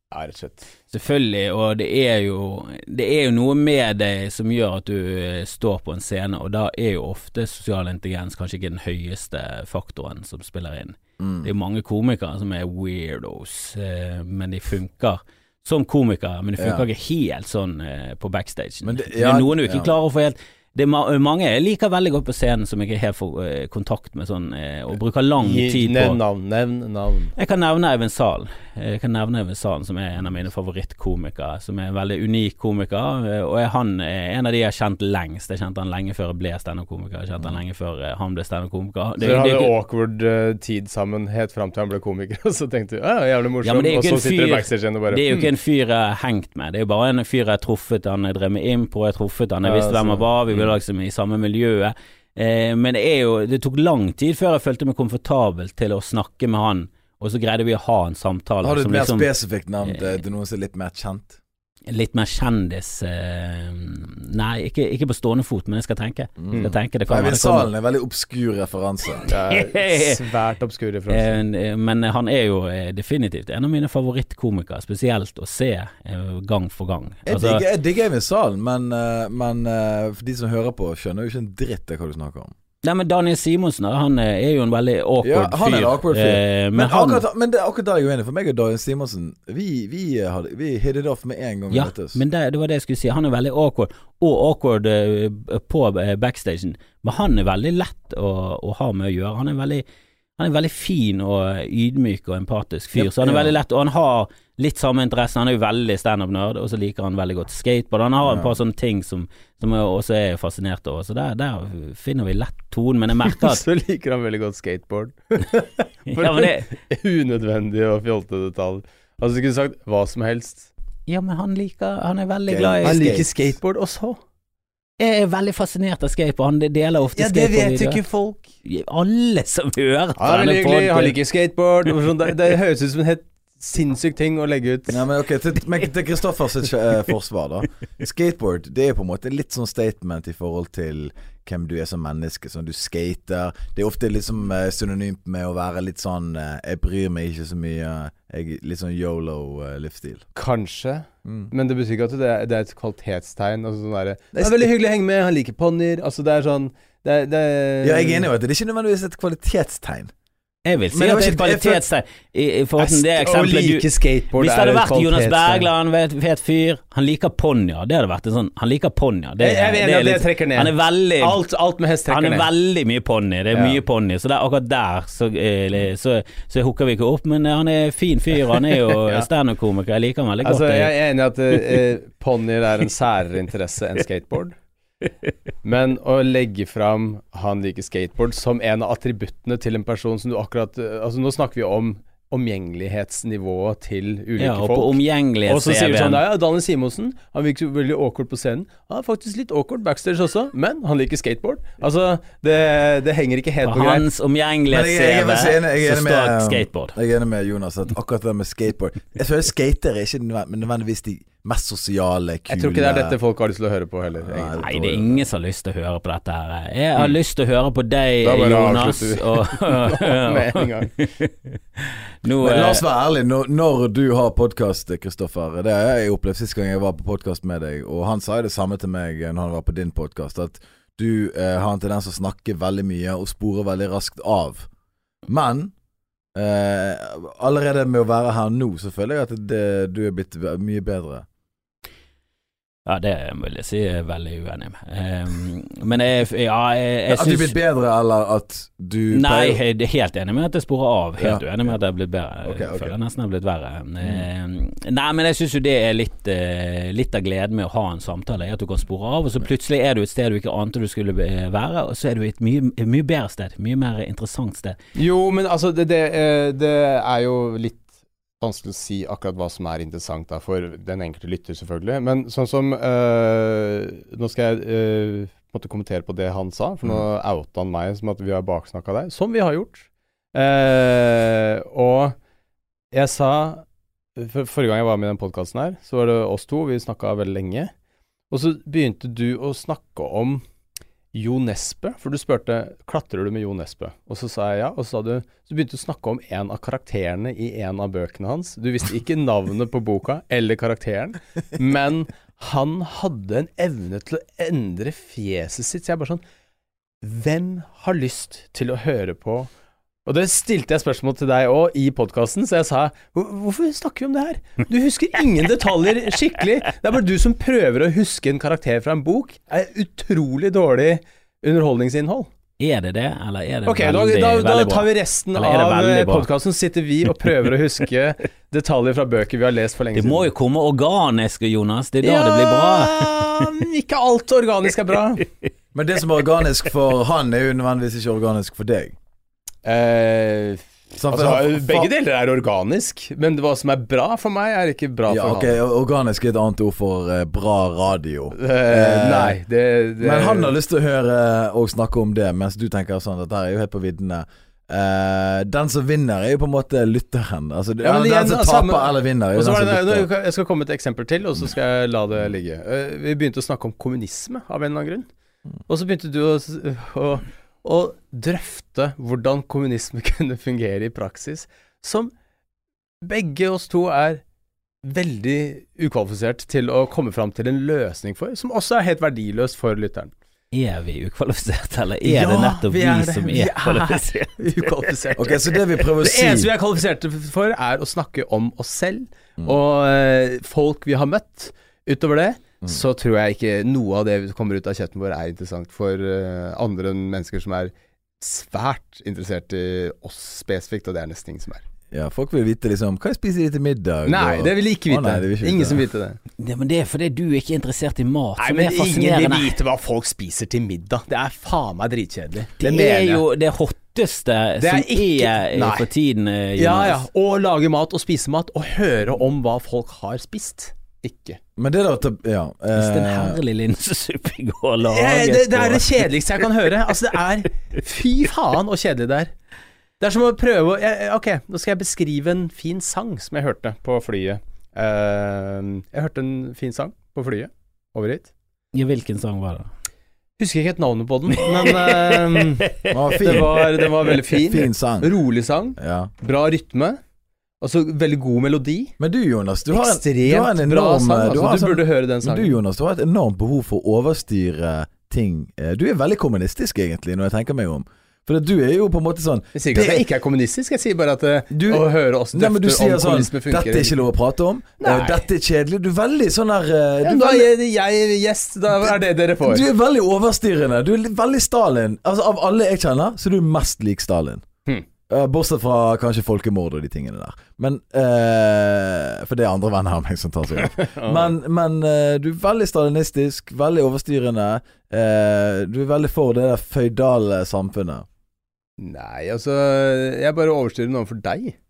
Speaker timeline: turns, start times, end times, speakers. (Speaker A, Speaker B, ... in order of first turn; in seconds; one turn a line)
Speaker A: 0.1-0.7
Speaker B: 0.9-26.2
Speaker C: 11.2-11.5
Speaker C: 16.6-16.8
Speaker C: 18.8-19.9
Speaker A: 25.4-27.3
Speaker B: 27.4-39.7
Speaker A: 39.2-45.5
Speaker B: 43.6-59.3
Speaker A: 49.6-50.2
Speaker C: 58.6-61.4
Speaker B: 59.8-60.1
Speaker B: 61.9-67.7
Speaker C: 66.4-69.2
Speaker A: 69.3-71.4
Speaker B: 69.5-70.2
Speaker B: 71.1-77.6
Speaker C: 77.2-82.5
Speaker B: 82.8-87.2
Speaker C: 85.2-92.2
Speaker B: 91.7-99.8
Speaker B: 100.4-113.6
Speaker C: 103.0-103.5
Speaker C: 108.2-108.5
Speaker A: 113.2-120.7
Speaker B: 116.1-116.7
Speaker B: 121.1-123.2
Speaker C: 122.5-123.3
Speaker A: 122.8-124.2
Speaker B: 125.0-128.0
Speaker A: 127.2-128.5
Speaker B: 128.6-131.2
Speaker A: 130.2-135.0
Speaker C: 134.9-150.2
Speaker A: 150.3-158.3
Speaker C: 151.2-151.5
Speaker C: 154.3-154.7
Speaker C: 157.8-160.1
Speaker B: 160.6-171.4
Speaker C: 160.9-161.8
Speaker A: 162.8-165.7
Speaker A: 169.4-172.5
Speaker B: 172.1-180.9
Speaker A: 173.5-173.8
Speaker A: 178.8-179.3
Speaker A: 180.4-184.6
Speaker A: 185.6-204.1
Speaker B: 194.4-196.2
Speaker B: 203.6-206.9
Speaker C: 204.7-213.2
Speaker A: 212.5-214.7
Speaker C: 214.1-215.3
Speaker B: 214.6-222.8
Speaker A: 218.2-220.9
Speaker C: 222.4-234.7
Speaker C: 235.3-235.7
Speaker C: 236.3-241.2
Speaker B: 242.8-247.6
Speaker C: 247.1-249.6
Speaker B: 249.1-264.8
Speaker C: 251.2-251.4
Speaker C: 252.4-252.9
Speaker A: 264.9-267.9
Speaker A: 268.4-282.2
Speaker A: 282.9-283.6
Speaker A: 284.1-287.7
Speaker A: 288.3-290.4
Speaker A: 291.1-306.2
Speaker A: 307.0-309.5
Speaker A: 310.1-322.3
Speaker B: 322.6-326.3
Speaker A: 323.6-330.3
Speaker B: 329.9-333.5
Speaker A: 332.0-335.3
Speaker C: 335.7-338.9
Speaker A: 339.6-345.6
Speaker C: 341.0-341.9
Speaker C: 345.1-349.4
Speaker A: 348.4-350.5
Speaker C: 350.0-360.1
Speaker A: 357.8-365.1
Speaker A: 365.7-372.1
Speaker A: 373.0-374.2
Speaker A: 374.8-380.1
Speaker B: 380.5-384.9
Speaker A: 382.0-401.6
Speaker C: 385.1-386.5
Speaker C: 401.9-405.8
Speaker A: 404.1-406.2
Speaker B: 406.4-409.6
Speaker A: 408.4-413.2
Speaker B: 412.6-417.0
Speaker A: 414.6-415.9
Speaker A: 416.6-421.4
Speaker C: 421.6-423.4
Speaker B: 422.7-426.1
Speaker A: 424.8-429.3
Speaker A: 430.0-438.3
Speaker B: 438.7-439.7
Speaker A: 440.4-447.0
Speaker B: 441.6-443.6
Speaker C: 442.9-443.5
Speaker C: 444.4-445.1
Speaker C: 445.8-446.1
Speaker A: 447.6-448.9
Speaker C: 449.0-460.0
Speaker A: 449.7-452.6
Speaker A: 459.5-464.0
Speaker C: 461.5-467.5
Speaker A: 464.8-465.2
Speaker A: 467.0-469.6
Speaker C: 468.8-474.4
Speaker C: 475.1-488.1
Speaker A: 480.7-481.3
Speaker A: 488.8-491.6